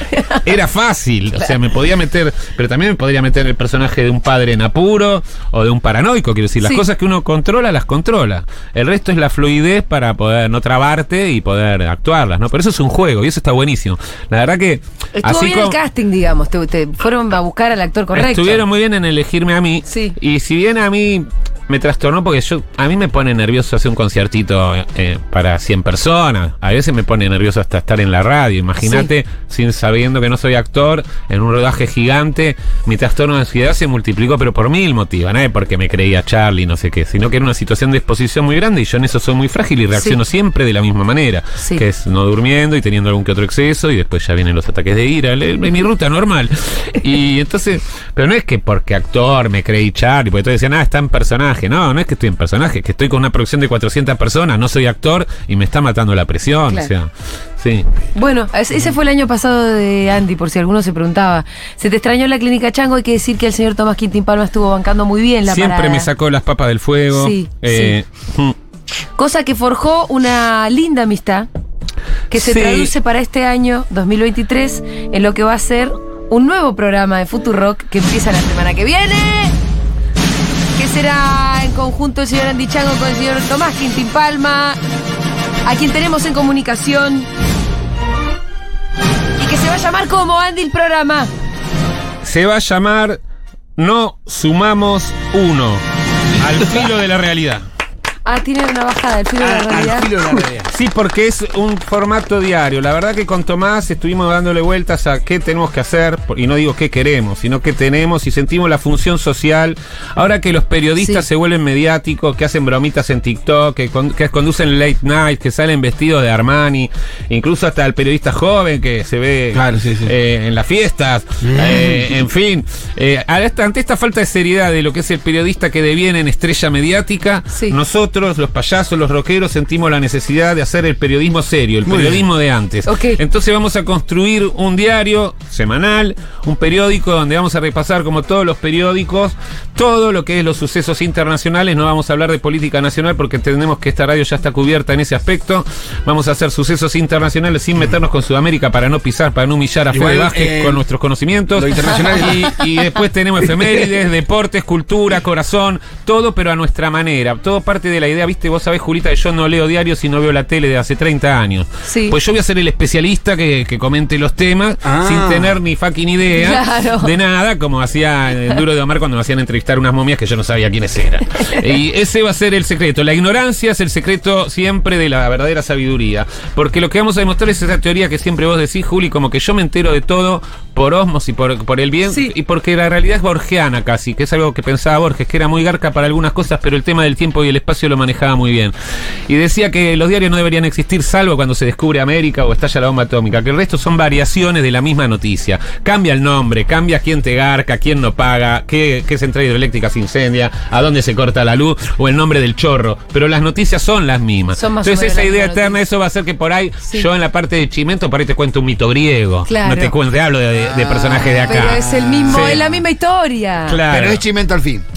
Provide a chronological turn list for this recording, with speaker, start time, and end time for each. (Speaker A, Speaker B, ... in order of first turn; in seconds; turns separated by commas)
Speaker A: 0.3-15.8, Speaker B: 15.2-18.6, Speaker A: 18.1-57.9, Speaker B: 19.9-20.2, Speaker B: 28.8-29.1, Speaker B: 58.1-66.1, Speaker A: 65.5-68.5, Speaker B: 67.1-67.9, Speaker B: 69.2-71.5, Speaker B: 72.3-79.5, Speaker A: 72.3-72.9, Speaker B: 80.8-84.8, Speaker B: 85.7-87.3, Speaker B: 89.4-91.3, Speaker A: 92.2-93.2, Speaker A: 93.8-95.8, Speaker A: 96.4-97.7, Speaker B: 98.3-100.5, Speaker C: 99.4-100.7, Speaker A: 100.7-188.7, Speaker C: 119.5-120.1, Speaker C: 121.5-122.0, Speaker C: 131.9-132.3, Speaker B: 132.9-133.2, Speaker C: 149.9-150.8, Speaker C: 151.5-152.6, Speaker B: 161.8-162.2, Speaker C: 164.8-165.6, Speaker B: 166.3-167.1, Speaker B: 182.1-182.3, Speaker A: 189.3-212.7, Speaker B: 204.6-205.8, Speaker B: 209.5-209.9, Speaker C: 210.7-212.6, Speaker B: 211.5-213.8, Speaker A: 213.7-214.2, Speaker C: 213.8-214.8